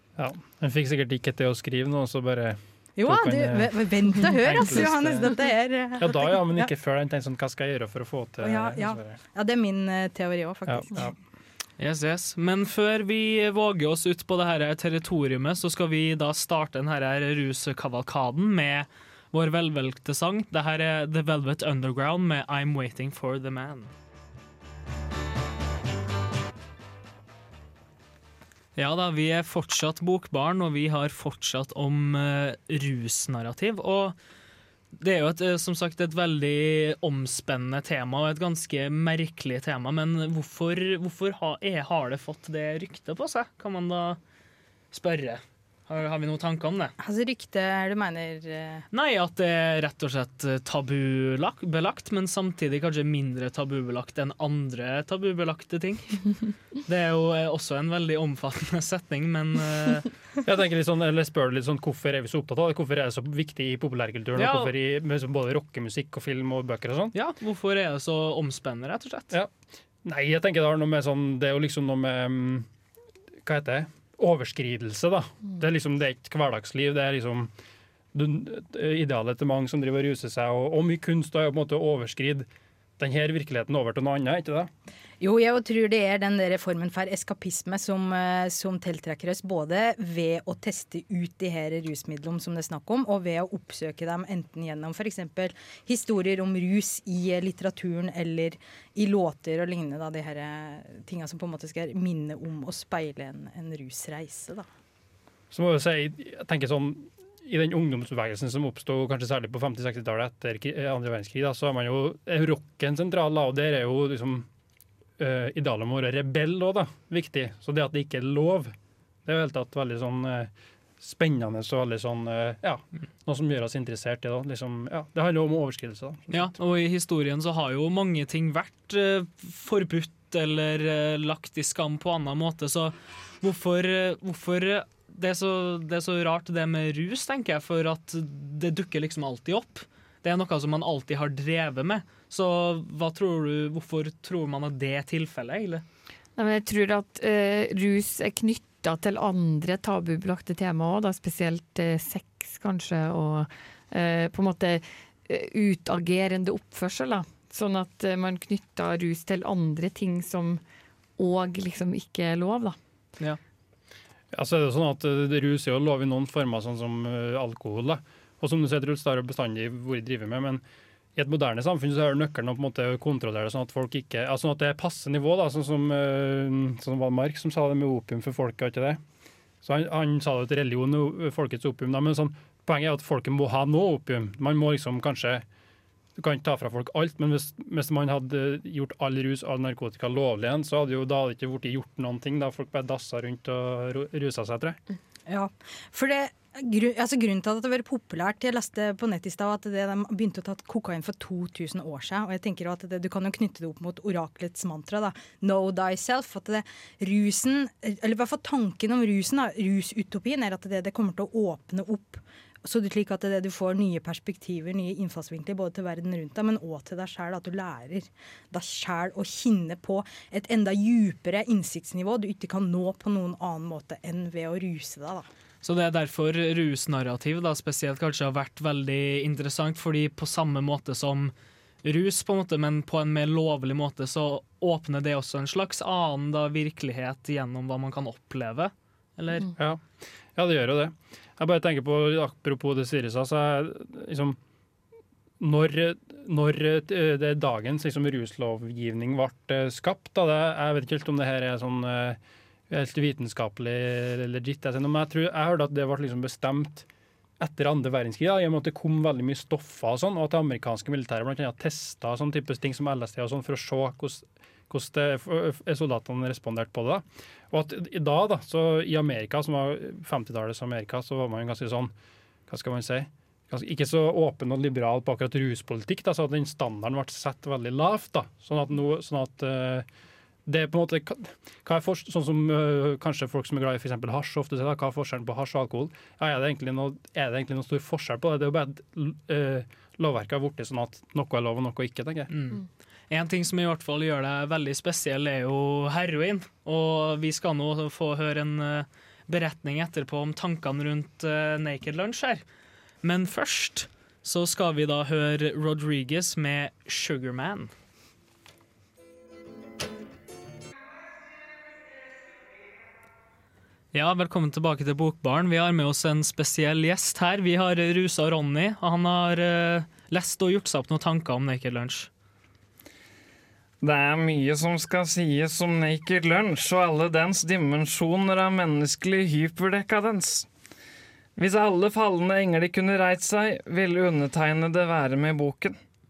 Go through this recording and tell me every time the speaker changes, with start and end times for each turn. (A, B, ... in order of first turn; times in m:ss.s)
0:00.2-0:05.3 A
0:03.0-0:06.7 B
0:06.0-0:09.2 A
0:08.4-0:11.1 B
0:10.7-0:11.1 A
0:11.8-0:23.9 C
0:28.8-0:34.2 C
0:34.9-0:44.2 C
0:44.9-0:47.0 C
0:47.0-0:48.9 B
0:48.9-1:00.1 C
1:00.4-1:07.1 A
1:04.4-1:04.7 C
1:07.1-1:09.4 C
1:10.0-1:12.7 A
1:13.4-1:17.5 A
1:18.1-1:24.7 A
1:25.2-1:44.7 B
1:45.5-1:54.5 A
1:55.2-1:58.7 A
1:59.3-2:06.5 A
2:06.3-2:25.8 C
2:26.4-2:40.6 D
2:41.2-2:42.8 D
2:44.3-2:50.6 A
2:51.2-2:59.0 A
2:59.6-3:05.4 A
3:06.2-3:14.8 A
3:15.3-3:45.3 B
3:45.6-3:51.3 C
3:51.8-3:59.5 C
3:59.6-3:59.8 A
4:00.3-4:04.4 A
4:05.4-4:12.2 A
4:12.7-4:16.9 A
4:17.4-4:31.9 A
4:32.5-4:39.8 A
4:40.4-4:52.3 A
4:52.3-5:02.4 C
5:03.0-5:07.7 C
5:13.9-5:22.1 C
5:23.8-5:30.5 E
5:31.4-5:35.8 E